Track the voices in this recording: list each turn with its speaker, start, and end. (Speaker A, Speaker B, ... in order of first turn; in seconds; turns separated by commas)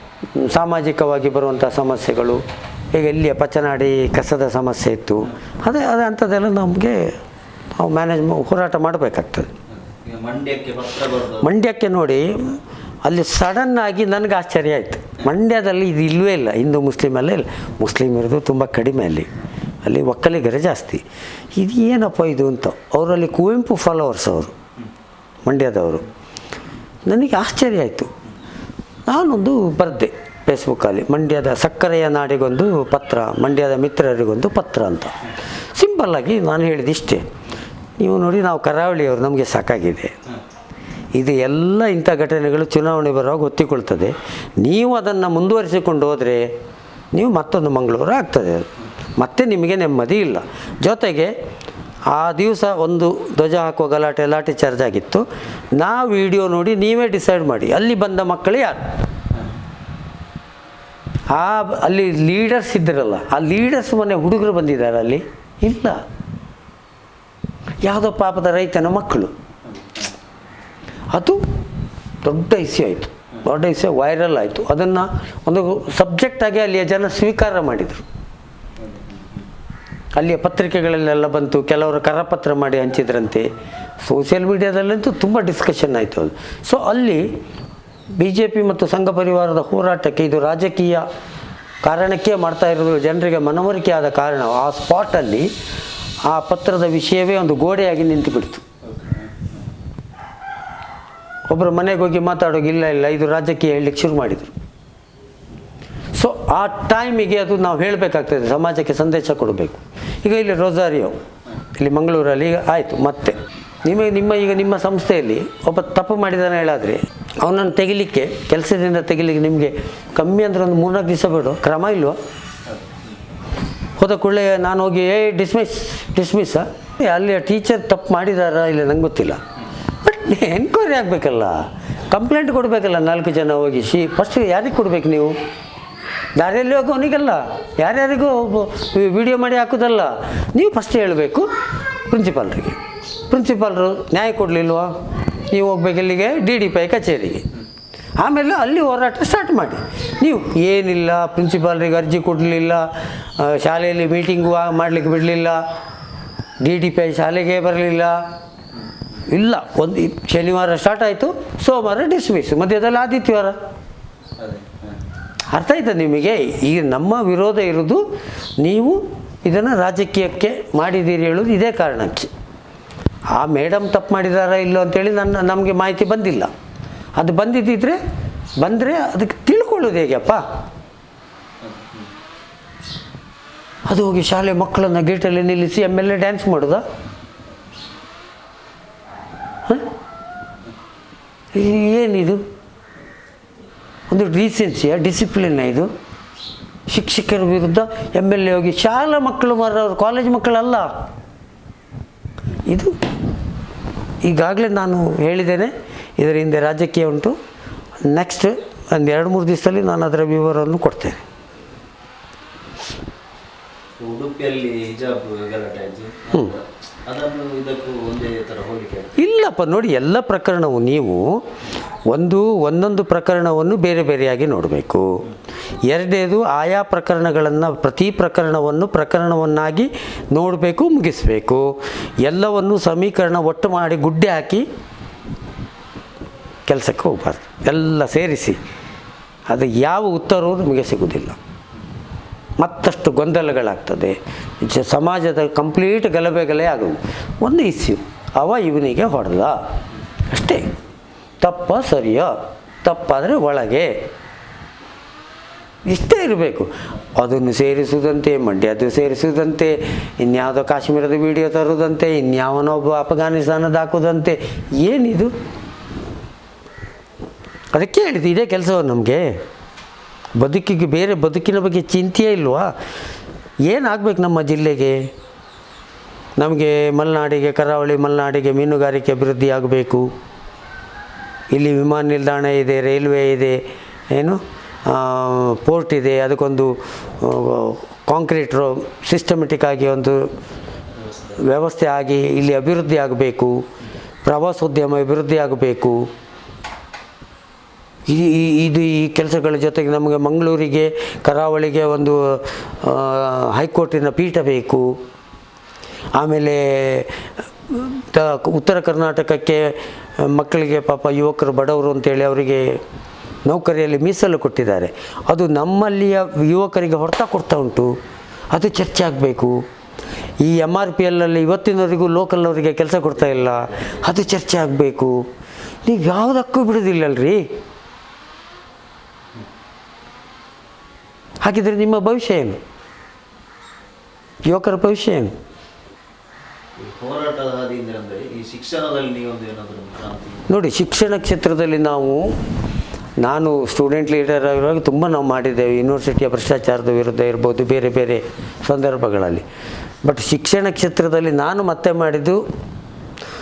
Speaker A: 0.3-7.2, Speaker A: 7.8-9.5, Speaker B: 9.7-11.5, Speaker A: 11.4-19.3, Speaker A: 19.8-21.0, Speaker A: 21.5-24.5, Speaker A: 25.4-26.0, Speaker A: 27.1-28.1, Speaker A: 29.1-35.2, Speaker A: 35.7-37.2, Speaker A: 38.0-40.2, Speaker A: 41.1-46.5, Speaker A: 47.1-51.3, Speaker A: 52.1-58.9, Speaker A: 61.3-66.0, Speaker A: 67.8-69.3, Speaker B: 69.7-70.1, Speaker A: 71.1-71.4, Speaker A: 72.2-78.0, Speaker B: 78.8-79.4, Speaker A: 80.2-83.5, Speaker A: 84.0-87.3, Speaker A: 88.2-91.0, Speaker A: 91.8-95.5, Speaker A: 96.2-98.6, Speaker B: 98.8-99.6, Speaker A: 101.5-104.5, Speaker A: 106.1-111.2, Speaker A: 111.7-122.2, Speaker B: 122.7-122.9, Speaker A: 124.0-129.4, Speaker A: 130.0-135.3, Speaker A: 136.3-141.5, Speaker A: 142.1-147.4, Speaker A: 148.2-155.6, Speaker A: 156.6-158.2, Speaker A: 159.3-163.6, Speaker B: 164.4-164.9, Speaker A: 165.5-168.0, Speaker A: 168.6-172.3, Speaker A: 173.3-176.5, Speaker A: 177.2-178.0, Speaker A: 178.6-180.4, Speaker B: 181.6-182.1, Speaker A: 183.9-186.8, Speaker A: 191.5-192.4, Speaker A: 194.1-195.9, Speaker A: 196.9-200.9, Speaker A: 202.7-202.9, Speaker A: 204.2-207.4, Speaker A: 208.0-211.2, Speaker B: 214.0-219.1, Speaker A: 219.2-221.4, Speaker A: 222.1-225.2, Speaker A: 225.8-234.7, Speaker A: 236.7-238.6, Speaker A: 239.5-241.4, Speaker A: 242.6-249.6, Speaker A: 250.3-250.7, Speaker A: 251.4-254.0, Speaker A: 255.8-265.3, Speaker A: 267.7-269.4, Speaker A: 270.4-272.7, Speaker A: 273.6-275.1, Speaker A: 276.4-280.1, Speaker A: 281.5-290.3, Speaker B: 291.0-291.4, Speaker A: 291.4-293.6, Speaker A: 294.2-296.1, Speaker A: 298.1-305.0, Speaker A: 306.1-312.8, Speaker A: 313.4-317.9, Speaker A: 318.5-319.6, Speaker A: 320.4-325.3, Speaker A: 325.8-327.5, Speaker A: 331.4-332.6, Speaker A: 334.4-335.3, Speaker B: 336.8-340.4, Speaker A: 340.5-342.3, Speaker A: 343.2-349.4, Speaker A: 350.0-352.4